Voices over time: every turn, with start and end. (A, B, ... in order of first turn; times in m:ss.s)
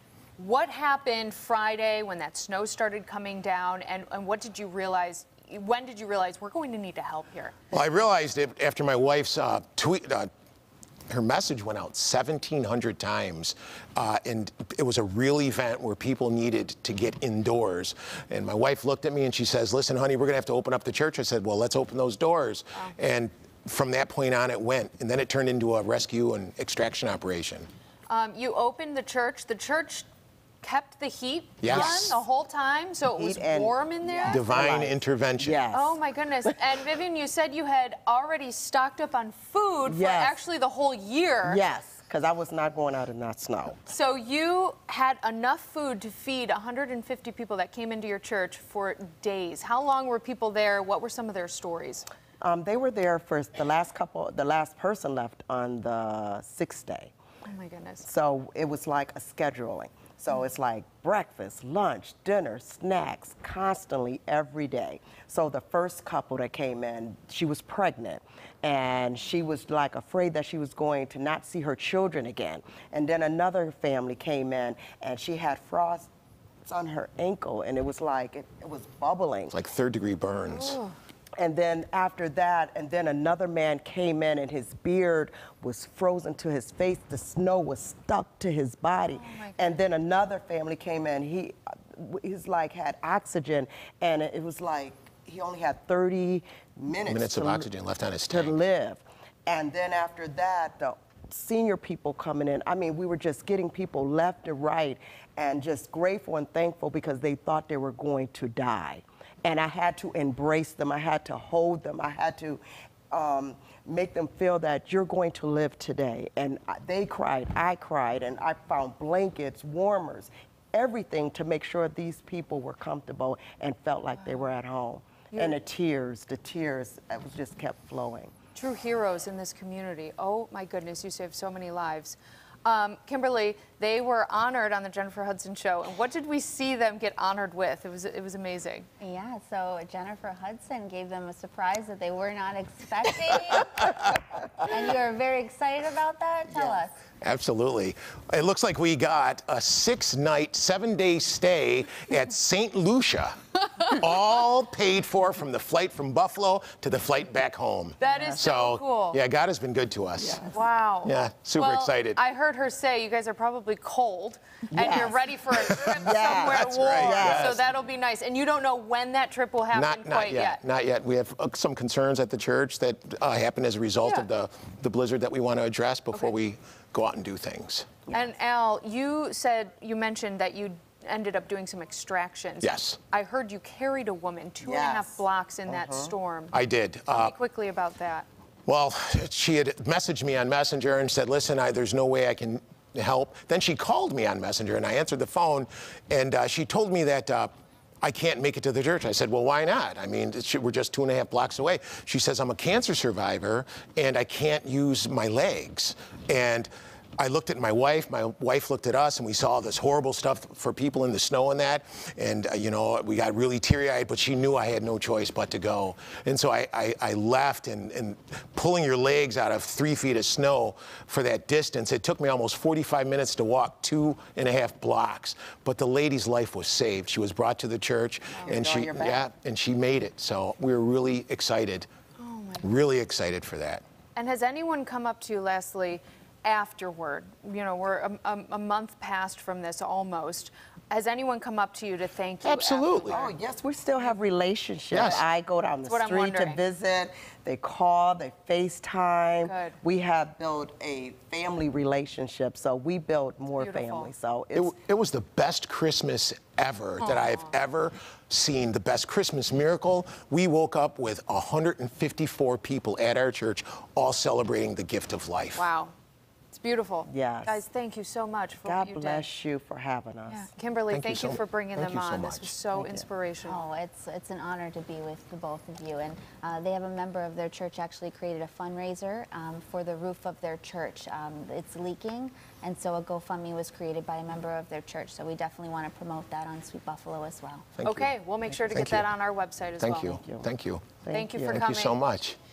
0:00.4-0:07.6 A
0:07.7-0:10.3 B
0:11.1-0:27.7 B
0:28.1-0:30.1 A
0:30.6-0:34.4 A
0:31.6-0:32.2 B
0:31.7-0:32.1 C
0:33.1-0:36.0 C
0:34.3-0:35.6 B
0:35.7-0:41.6 A
0:39.9-0:40.4 C
0:41.4-0:43.8 C
0:43.9-0:52.1 A
0:52.4-0:57.1 C
0:57.4-0:58.0 A
0:58.0-1:16.1 C
1:16.6-1:19.6 C
1:19.5-1:20.8 B
1:20.5-1:21.0 A
1:21.4-1:37.7 C
1:29.2-1:29.7 A
1:37.1-1:38.5 B
1:38.3-2:08.3 C
2:08.6-2:18.9 A
2:19.0-2:27.0 D
2:27.2-2:40.4 B
2:38.0-2:39.2 A
2:40.2-2:40.6 C
2:40.5-2:50.6 A
2:41.0-2:42.2 B
2:44.7-2:45.2 C
2:45.7-2:45.9 B
2:46.0-2:47.6 C
2:46.5-2:47.6 B
2:49.7-2:57.9 B
2:58.1-3:06.6 A
3:02.6-3:03.0 B
3:04.6-3:06.1 C
3:06.5-3:07.4 B
3:07.1-3:08.3 A
3:08.7-3:51.9 B
3:48.5-3:49.2 C
3:52.2-3:52.7 A
3:52.6-3:53.8 B
3:54.2-4:03.3 A
4:02.4-4:03.2 B
4:03.1-4:14.7 C
4:04.9-4:05.2 B
4:05.8-4:06.6 A
4:09.4-4:09.8 A
4:13.6-4:14.1 A
4:14.6-4:25.7 B
4:17.0-4:17.5 A
4:25.6-4:25.9 A
4:26.5-4:29.3 A
4:27.1-4:27.6 C
4:28.6-4:30.5 C
4:30.3-4:33.6 A
4:30.9-4:32.5 B
4:32.8-4:33.0 C
4:33.4-4:47.7 D
4:47.8-4:48.1 B
4:47.8-4:50.2 A
4:48.7-4:49.1 B
4:49.8-4:52.4 B
4:50.2-4:50.5 C
4:51.0-4:51.6 C
4:51.1-4:52.0 A